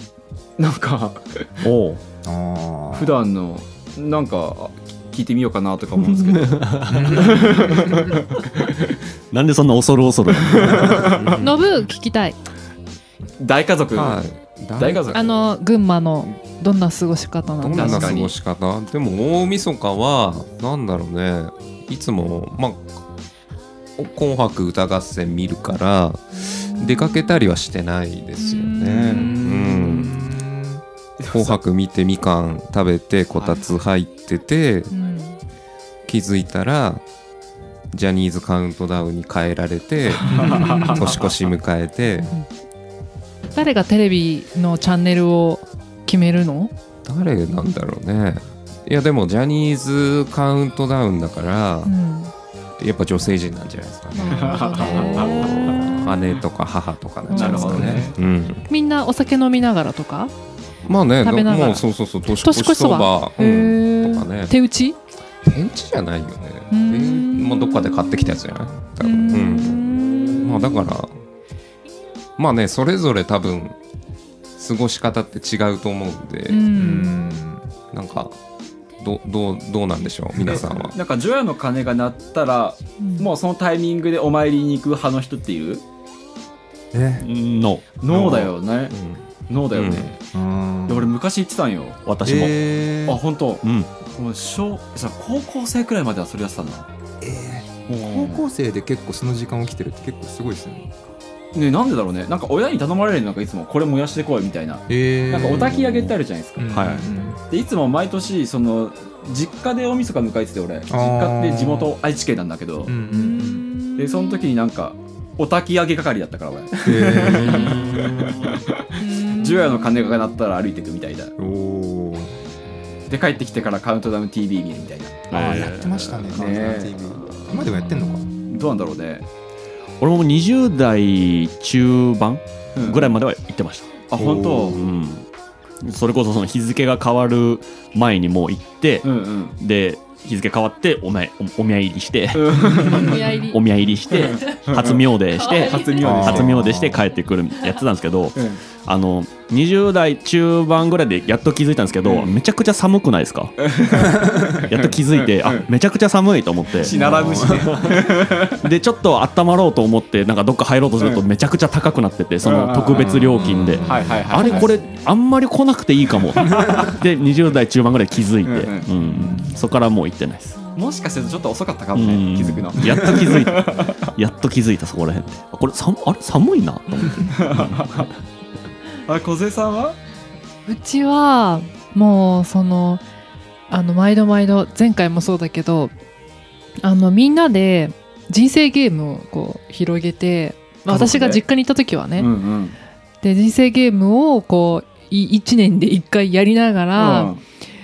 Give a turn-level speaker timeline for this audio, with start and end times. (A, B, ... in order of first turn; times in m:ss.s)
0:00.6-0:01.5 A
0:01.6-0:02.0 B
0:02.2-0:03.2 C
0:02.9-0:08.9 A
0:06.0-0:07.8 B
0:06.9-0:08.2 C
0:09.3-0:11.1 B
0:10.3-0:11.4 A
0:10.6-0:11.2 C
0:11.1-0:11.6 D
0:11.4-0:12.4 E
0:13.4-0:14.2 A
0:14.0-0:15.3 D
0:14.8-0:15.3 A
0:15.1-0:18.2 E
0:17.6-0:22.8 D
0:17.7-0:18.3 A
0:24.0-0:30.3 D
0:28.4-0:29.2 E
0:28.8-0:30.8 C
0:29.0-0:30.2 A
0:31.2-0:31.6 A
0:31.3-0:34.9 D
0:34.9-0:35.4 E
0:36.1-0:37.0 D
0:37.9-0:42.3 D
0:40.2-0:41.1 A
0:40.4-0:41.0 C
0:43.6-0:46.7 E
0:47.0-0:51.9 D
0:51.8-0:52.3 E
0:52.8-0:58.6 D
0:54.2-0:56.1 E
0:54.6-0:55.1 A
0:57.3-0:58.1 E
0:57.3-0:58.2 A
0:58.7-1:00.3 E
1:00.9-1:04.5 D
1:01.2-1:05.0 E
1:05.4-1:11.1 D
1:06.7-1:08.0 E
1:09.0-1:10.8 E
1:12.4-1:13.8 D
1:14.6-1:16.8 D
1:16.5-1:17.2 E
1:16.7-1:17.7 C
1:17.9-1:18.4 D
1:19.0-1:21.0 D
1:20.3-1:20.9 C
1:21.0-1:25.8 A
1:23.0-1:23.3 E
1:26.9-1:27.3 C
1:27.2-1:27.9 B
1:28.0-1:28.9 A
1:28.1-1:28.5 C
1:28.9-1:29.2 D
1:29.5-1:30.2 A
1:29.7-1:30.1 D
1:30.3-1:31.1 C
1:30.9-1:32.0 A
1:32.1-1:32.6 B
1:32.2-1:33.2 C
1:33.1-1:33.6 A
1:33.6-1:33.9 B
1:34.2-1:36.9 A
1:37.2-1:40.9 C
1:37.9-1:38.4 A
1:41.5-1:53.0 A
1:44.9-1:47.4 C
1:46.7-1:47.0 B
1:50.9-1:52.0 C
1:52.9-1:53.7 C
1:53.1-1:54.2 E
1:54.0-2:01.3 A
1:56.9-1:57.9 C
1:57.0-1:58.6 B
1:59.0-1:59.9 E
2:01.4-2:02.4 C
2:03.1-2:05.6 A
2:05.3-2:06.3 B
2:05.3-2:08.3 C
2:06.3-2:07.2 A
2:08.5-2:09.3 A
2:10.0-2:13.9 B
2:12.8-2:13.2 A
2:14.1-2:14.8 A
2:14.2-2:14.8 C
2:14.7-2:15.2 B
2:15.8-2:50.6 B
2:19.0-2:19.6 A
2:22.3-2:23.2 A
2:22.9-2:23.6 E
2:24.1-2:26.6 A
2:25.5-2:26.0 E
2:26.0-2:27.0 C
2:28.4-2:28.6 A
2:32.0-2:32.3 A
2:33.6-2:35.7 A
2:36.8-2:38.7 A
2:36.9-2:37.8 C
2:41.0-2:41.2 A
2:42.4-2:43.2 A
2:42.9-2:44.2 C
2:43.8-2:44.7 A
2:44.4-2:44.8 E
2:48.4-2:48.9 A
2:50.7-2:54.1 A
2:51.9-2:58.1 B
2:57.3-2:58.1 A
2:59.1-3:00.0 A
3:00.7-3:03.0 E
3:03.7-3:05.9 E
3:06.8-3:12.3 E
3:10.9-3:11.4 A
3:12.2-3:12.8 A
3:13.2-3:17.3 E
3:17.0-3:17.4 A